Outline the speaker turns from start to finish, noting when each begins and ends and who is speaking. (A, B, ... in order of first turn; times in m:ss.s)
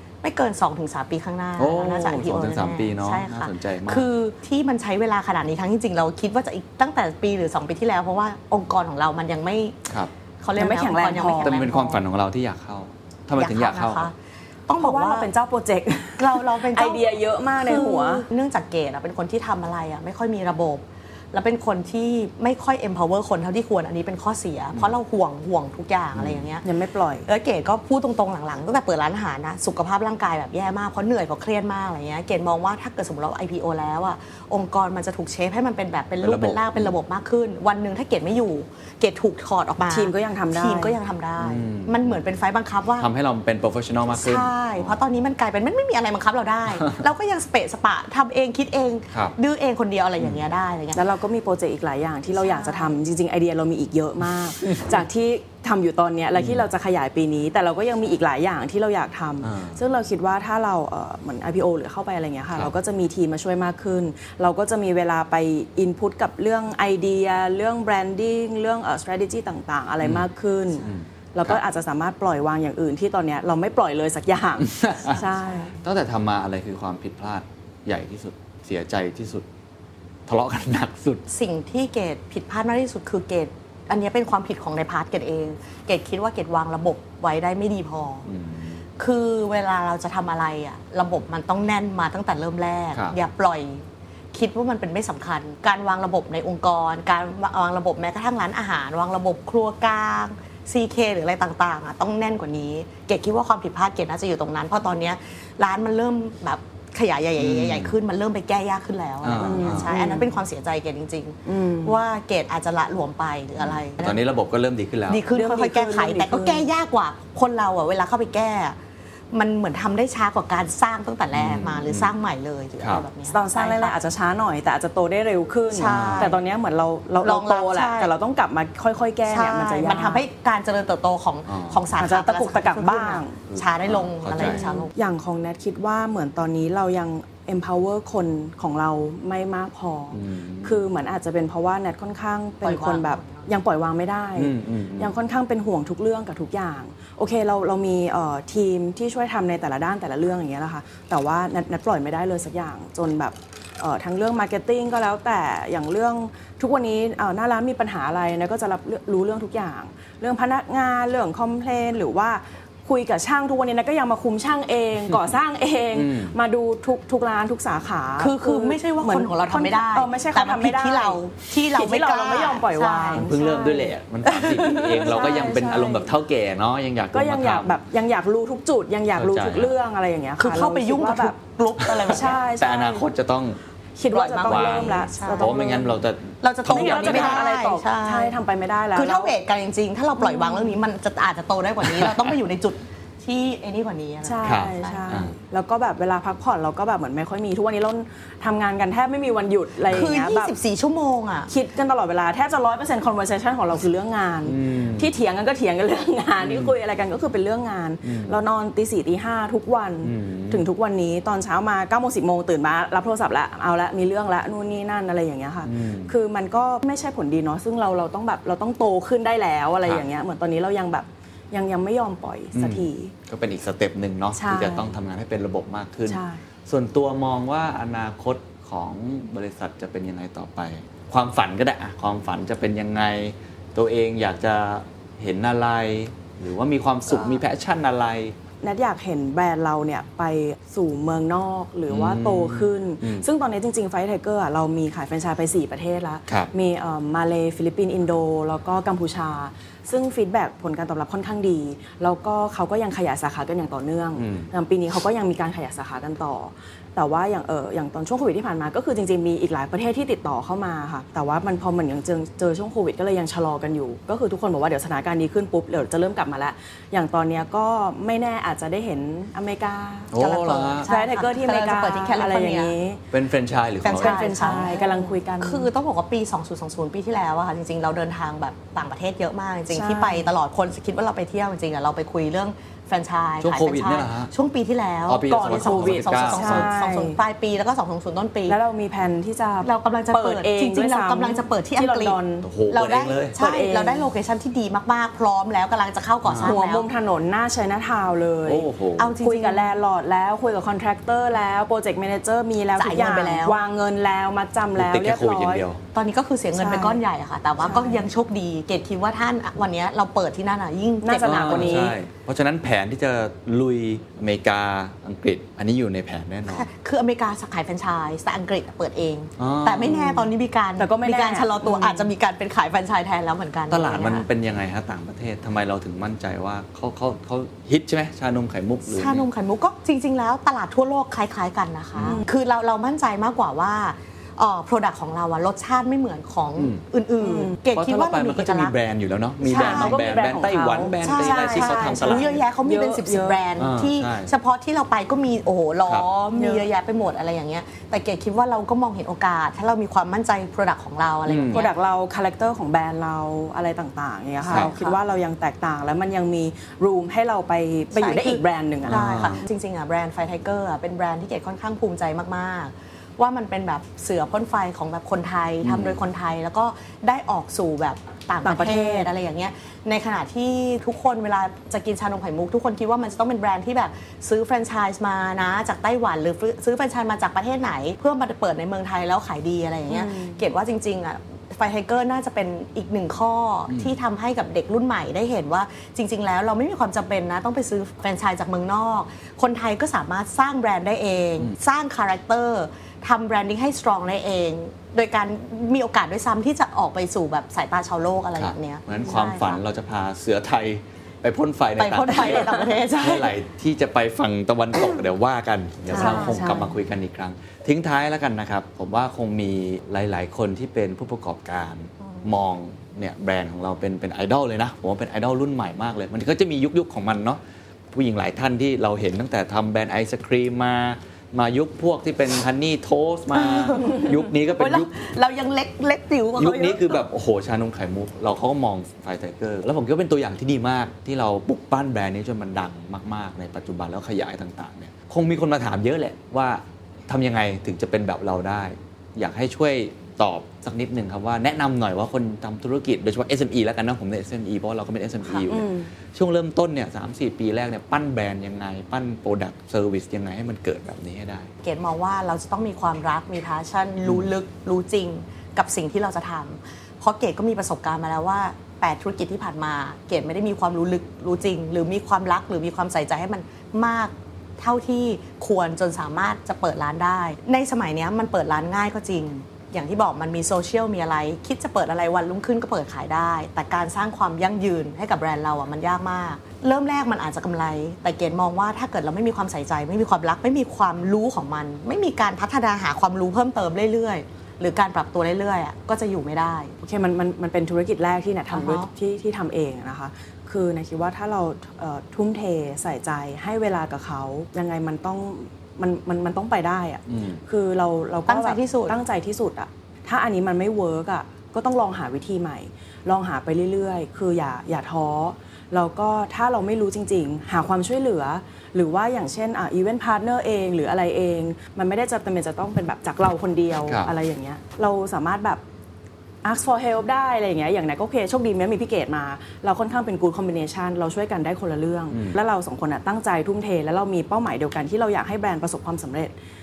0:00.2-0:09.9 A
0:01.6-0:04.1 B
0:10.4-0:12.0 A
0:10.6-0:11.8 C
0:11.4-0:14.1 B
0:13.4-0:14.1 A
0:14.7-0:15.3 A
0:14.8-0:18.2 C
0:16.2-0:26.6 A
0:26.2-0:26.4 B
0:26.6-0:27.3 C
0:27.3-0:43.1 A
0:36.2-0:36.9 B
0:39.9-0:41.0 C
0:41.4-0:42.2 B
0:43.0-0:45.0 B
0:44.1-0:51.0 A
0:51.0-1:15.8 C
0:52.3-0:53.0 A
0:56.4-0:56.6 B
0:59.4-0:59.8 B
1:10.8-1:11.6 B
1:14.6-1:15.2 B
1:15.8-1:19.5 B
1:20.3-1:21.2 B
1:21.3-1:28.3 A
1:28.3-1:28.8 B
1:29.0-1:54.2 A
1:47.4-1:47.9 B
1:49.2-1:49.9 B
1:49.4-1:50.3 C
1:51.5-1:52.0 C
1:53.6-1:55.2 B
1:55.1-1:58.8 A
1:55.3-1:56.7 C
1:59.3-2:04.0 A
2:01.3-2:02.1 B
2:03.3-2:10.2 C
2:05.7-2:06.4 A
2:05.8-2:06.3 B
2:07.2-2:08.1 A
2:09.3-2:14.9 A
2:11.5-2:11.8 B
2:12.0-2:13.4 C
2:13.5-2:14.6 B
2:14.4-2:51.2 C
2:20.1-2:20.9 B
2:22.6-2:23.5 A
2:24.4-2:25.1 B
2:45.9-2:46.4 B
2:48.2-2:53.3 A
2:51.7-2:56.1 C
2:53.2-2:57.7 B
2:57.1-3:01.4 C
2:59.2-2:59.7 B
3:00.4-3:02.4 A
3:01.8-3:03.6 B
3:02.1-3:03.1 C
3:04.0-3:06.0 C
3:04.1-3:05.5 A
3:04.4-3:07.5 B
3:06.4-3:08.4 A
3:06.7-3:09.4 C
3:09.0-3:15.3 A
3:10.2-3:10.8 C
3:11.9-3:12.3 B
3:14.2-3:20.5 C
3:14.4-3:15.3 B
3:19.9-3:21.5 A
3:21.5-3:43.1 C
3:24.5-3:25.1 B
3:26.4-3:26.7 B
3:28.0-3:28.4 B
3:30.0-3:30.7 B
3:35.6-3:36.1 B
3:42.5-3:58.4 B
3:44.4-3:44.9 C
3:46.1-3:46.4 C
3:57.1-3:57.4 C
3:58.6-4:30.2 C
4:01.9-4:03.3 B
4:14.2-4:14.5 B
4:30.1-4:30.9 B
4:30.2-4:32.8 A
4:30.9-4:33.0 C
4:33.1-4:34.7 B
4:33.8-4:48.6 A
4:34.0-4:35.7 C
4:39.7-4:40.3 C
4:43.4-4:44.3 B
4:45.1-4:46.7 B
4:45.3-4:47.2 C
4:48.5-4:52.5 C
4:49.6-4:52.2 A
4:52.4-4:53.4 B
4:52.7-4:56.9 A
4:53.4-4:54.1 C
4:56.2-4:56.6 B
4:56.4-5:05.6 C
4:58.4-4:59.1 B
4:59.0-4:59.7 A
5:02.8-5:03.6 A
5:04.8-5:05.8 B
5:05.9-5:12.0 A
5:06.6-5:07.0 C
5:07.6-5:08.0 C
5:11.0-5:12.0 C
5:11.2-5:16.7 B
5:16.5-5:24.3 A
5:19.4-5:20.2 B
5:19.8-5:20.3 C
5:20.8-5:22.1 C
5:23.7-5:29.3 B
5:28.9-5:38.8 A
5:31.9-5:32.2 B
5:32.0-5:32.3 C
5:36.6-5:36.8 B
5:37.2-5:37.6 C
5:37.7-5:42.4 B
5:39.4-5:40.0 A
5:39.5-5:43.4 C
5:41.0-5:51.7 A
5:43.6-5:44.3 B
5:46.4-5:46.7 C
5:51.3-5:51.7 B
5:51.5-5:59.1 C
5:54.5-5:55.0 A
5:54.5-5:54.7 B
5:58.0-6:39.6 A
5:58.9-5:59.4 B
6:05.6-6:06.0 B
6:08.4-6:09.1 C
6:19.9-6:20.4 C
6:23.7-6:24.0 B
6:38.4-6:57.4 B
6:39.0-6:39.5 C
6:41.8-6:43.3 A
6:45.9-6:46.4 A
6:45.9-6:46.7 C
6:57.9-7:04.9 B
7:03.4-7:07.0 A
7:06.4-7:31.5 B
7:25.5-7:25.9 C
7:31.6-8:06.8 A
8:06.8-8:35.6 C
8:08.5-8:08.9 A
8:17.1-8:17.4 B
8:18.3-8:19.0 A
8:36.4-8:46.3 C
8:42.1-8:42.4 B